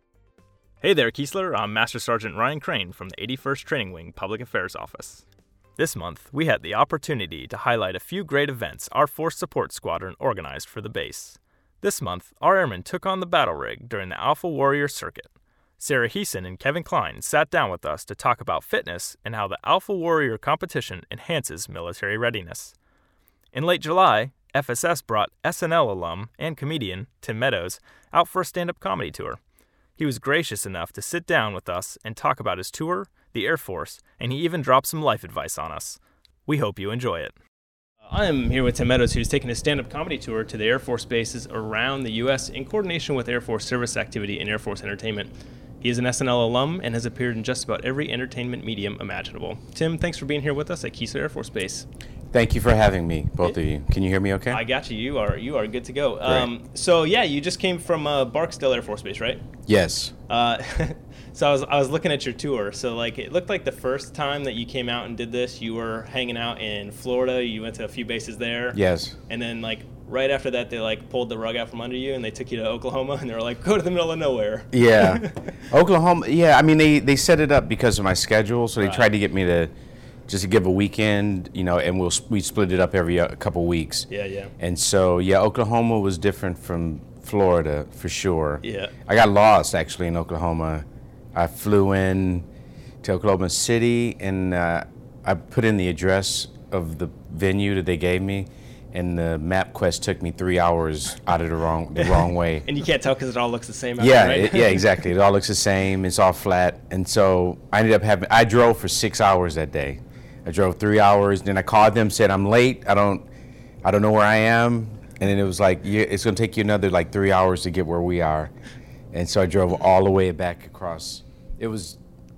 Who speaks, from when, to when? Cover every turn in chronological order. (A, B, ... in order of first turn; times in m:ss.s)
0:00.8-0:05.2 A
0:05.8-0:22.7 A
0:23.5-0:29.4 A
0:30.0-0:37.3 A
0:38.1-0:51.8 A
0:52.3-0:54.6 B
0:54.5-0:59.4 A
0:56.2-0:56.5 B
0:59.6-1:00.1 B
1:00.3-1:15.4 A
1:08.7-1:09.2 B
1:14.7-1:19.7 B
1:18.8-1:19.1 A
1:20.3-1:24.1 B
1:24.1-1:24.5 A
1:24.6-1:32.4 B
1:28.6-1:28.9 A
1:33.0-1:42.7 B
1:42.0-1:45.0 A
1:44.0-1:53.3 B
1:53.8-1:58.5 B
1:59.1-2:02.0 B